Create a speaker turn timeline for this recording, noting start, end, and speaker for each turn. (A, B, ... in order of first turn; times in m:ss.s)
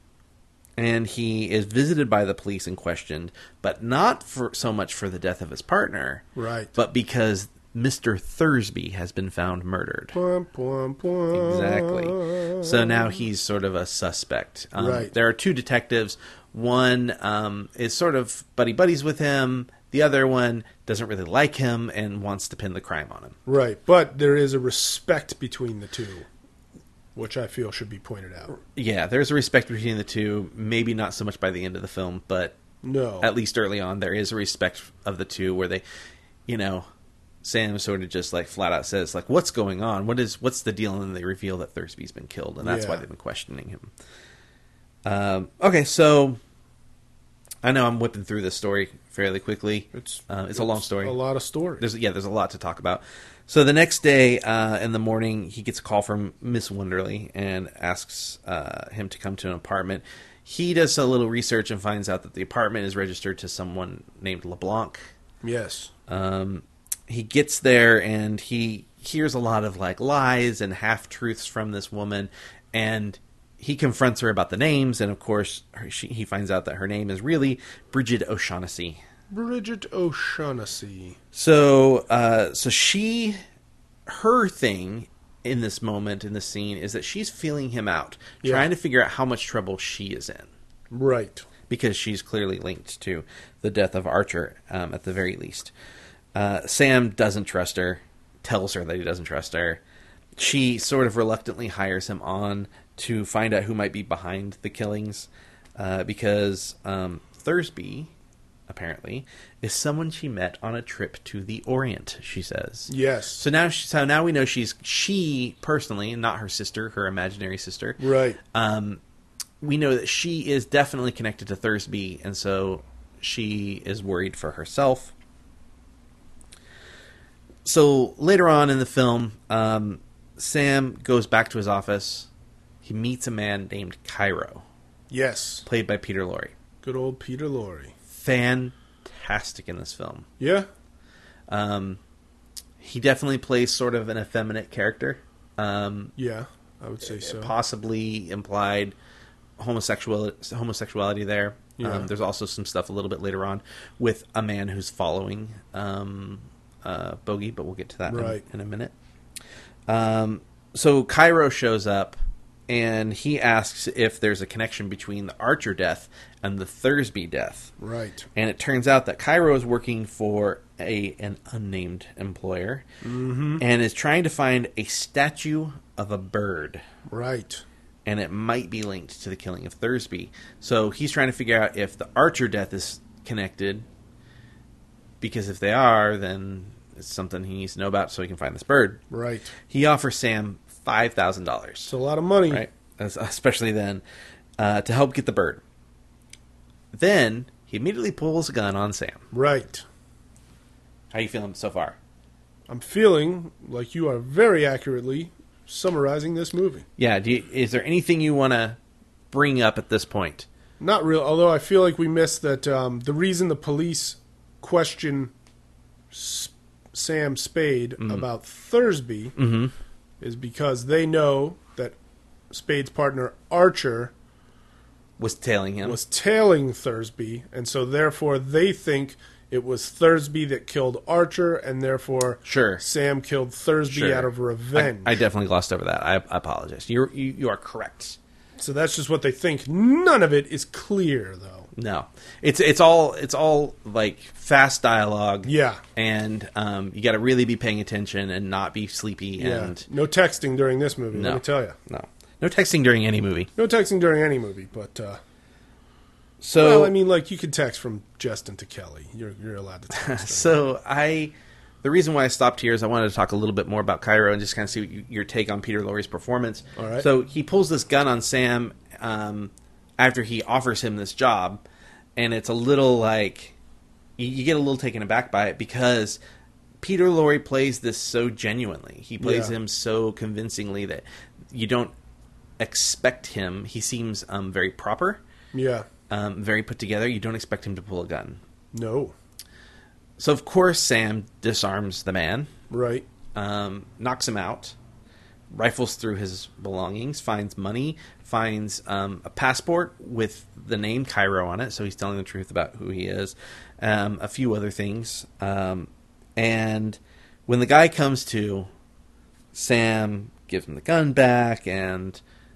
0:00.8-0:10.2 A
0:06.4-0:06.7 B
0:10.1-0:13.0 B
0:11.3-0:23.4 A
0:14.8-0:15.1 B
0:23.5-0:26.3 B
0:27.2-0:28.5 B
0:28.5-0:32.6 A
0:32.8-0:33.3 B
0:33.2-0:35.8 A
0:36.5-0:36.9 A
0:37.4-0:43.9 A
0:42.6-0:43.0 B
0:45.0-0:46.4 A
0:47.6-0:51.2 A
0:49.9-0:51.8 B
0:51.8-1:05.1 A
1:05.4-1:05.9 B
1:06.1-1:19.0 A
1:19.3-1:21.2 B
1:21.3-1:23.4 A
1:24.1-1:30.5 A
1:30.9-1:31.5 B
1:31.7-1:35.7 A
1:36.4-1:39.8 A
1:40.4-1:48.1 A
1:48.7-1:58.0 A
1:52.9-1:53.4 B
1:58.0-1:58.4 B
1:58.5-1:59.0 A
1:59.6-2:05.1 A
2:07.6-2:12.3 A
2:12.8-2:14.6 A
2:15.1-2:15.7 B
2:15.7-2:16.5 A
2:16.8-2:17.9 B
2:18.1-2:20.3 A
2:20.4-2:20.7 B
2:21.5-2:22.0 A
2:22.8-2:26.1 A
2:26.2-2:27.5 B
2:27.0-2:29.0 A
2:29.6-2:38.9 A
2:31.8-2:32.1 B
2:38.1-2:38.4 B
2:39.9-2:42.2 A
2:42.7-2:47.7 A
2:47.8-2:48.3 B
2:48.4-2:52.8 A
2:53.0-2:53.6 B
2:53.6-2:56.8 A
2:57.1-2:57.6 B
2:58.0-3:03.9 A
3:05.2-3:09.0 A
3:09.1-3:09.5 B
3:09.7-3:11.9 A
3:11.9-3:12.7 B
3:12.5-3:14.0 A
3:14.6-3:15.6 A
3:16.9-3:19.2 A
3:19.3-3:19.8 B
3:21.1-3:22.0 A
3:22.7-3:26.8 B
3:27.0-3:28.8 A
3:29.3-3:30.5 A
3:30.8-3:35.3 B
3:36.1-3:39.4 B
3:38.0-3:38.3 A
3:39.4-3:39.7 A
3:40.2-3:42.0 B
3:42.5-3:44.1 B
3:45.2-3:46.0 A
3:45.8-3:55.2 B
3:52.4-3:52.8 A
3:53.9-3:58.2 A
3:58.6-4:01.7 B
4:01.7-4:09.8 A
4:05.4-4:05.8 B
4:09.4-4:11.8 B
4:11.1-4:13.5 A
4:13.6-4:15.2 B
4:16.4-4:16.9 A
4:16.6-4:20.6 B
4:19.9-4:31.6 A
4:26.8-4:27.1 B
4:32.2-4:33.6 A
4:34.2-4:36.2 A
4:36.8-4:41.9 A
4:39.2-4:39.5 B
4:42.6-4:45.2 A
4:45.5-4:45.9 B
4:46.1-4:48.4 A
4:48.7-4:49.2 B
4:50.2-4:52.5 A
4:52.7-4:53.1 B
4:53.4-4:54.8 A
4:55.5-5:08.7 A
5:09.5-5:12.2 A